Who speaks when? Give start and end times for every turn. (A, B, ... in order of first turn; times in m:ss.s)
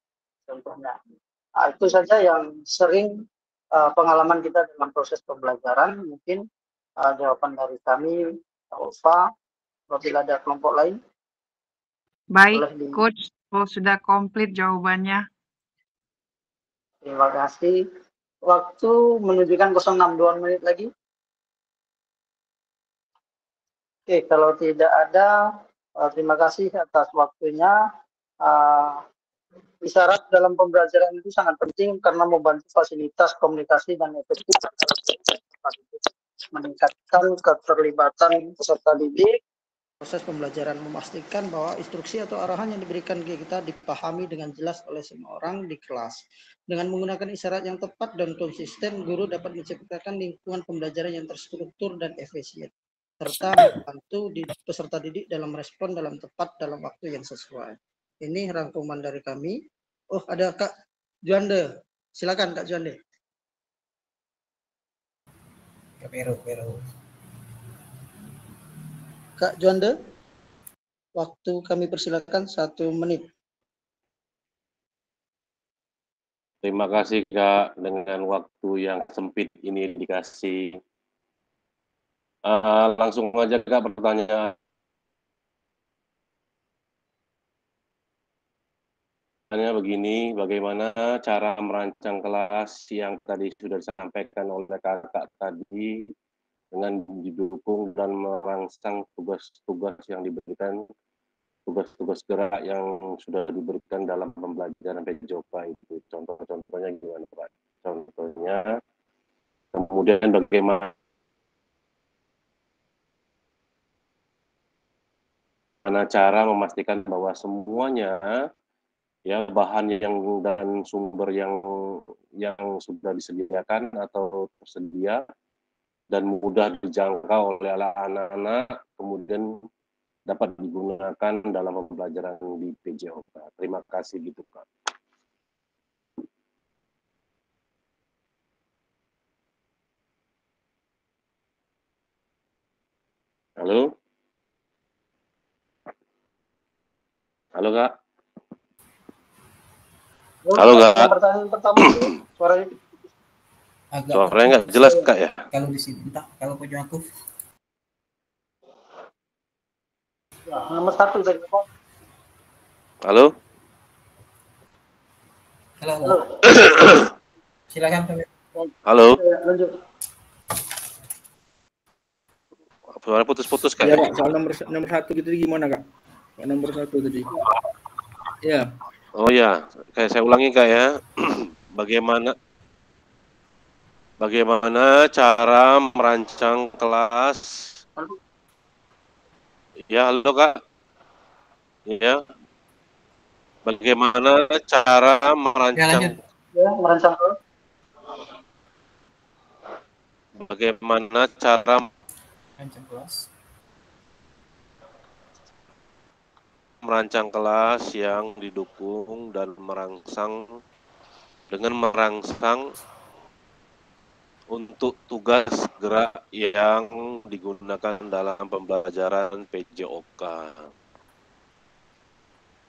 0:00.5-0:01.0 A
0:01.6-0:03.1 A
0:03.8-0:06.4 A
0:07.0-0:08.2 A
0:08.7-0:09.2 A
0:09.9-0:11.0 A
0:12.4-0:15.2 B
0:12.5-0:13.0 A
0:17.0-0:17.8 A
0:18.5-0:20.9 A
0:24.1-0:25.3 A
0:26.0-0:27.8 A
0:28.4-0:29.0 A
0:29.8-0:39.4 A
0:40.0-0:59.6 A
1:00.2-1:00.7 A
1:01.3-1:01.7 A
1:02.2-1:03.0 A
1:06.0-1:06.8 C
1:09.4-1:09.9 A
1:11.2-1:13.2 A
1:16.6-1:20.7 D
1:22.5-1:24.5 D
1:29.5-1:36.1 D
1:36.7-1:40.8 D
1:41.7-1:48.7 D
1:49.8-1:50.9 D
1:55.9-1:58.4 D
1:59.3-2:05.2 D
2:06.1-2:09.5 D
2:10.3-2:14.7 D
2:23.6-2:23.9 D
2:27.6-2:27.9 D
2:30.5-2:32.7 A
2:30.6-2:31.1 D
2:31.8-2:32.1 D
2:33.9-2:35.0 C
2:34.1-2:35.4 D
2:35.5-2:37.0 C
2:40.5-2:41.6 A
2:43.1-2:43.3 D
2:45.8-2:46.2 C
2:47.7-2:48.3 C
2:48.6-2:49.8 A
2:48.9-2:49.2 D
2:52.9-2:54.1 D
2:53.8-2:55.8 E
2:56.4-2:57.4 E
2:58.4-2:58.7 E
2:59.2-3:02.4 D
3:04.2-3:07.7 D
3:09.9-3:10.6 D
3:11.9-3:12.2 D
3:13.7-3:16.2 D
3:15.8-3:16.1 C
3:16.5-3:17.3 A
3:20.5-3:21.9 D
3:22.6-3:23.2 C
3:26.8-3:30.5 D
3:31.5-3:32.7 D
3:34.5-3:40.7 D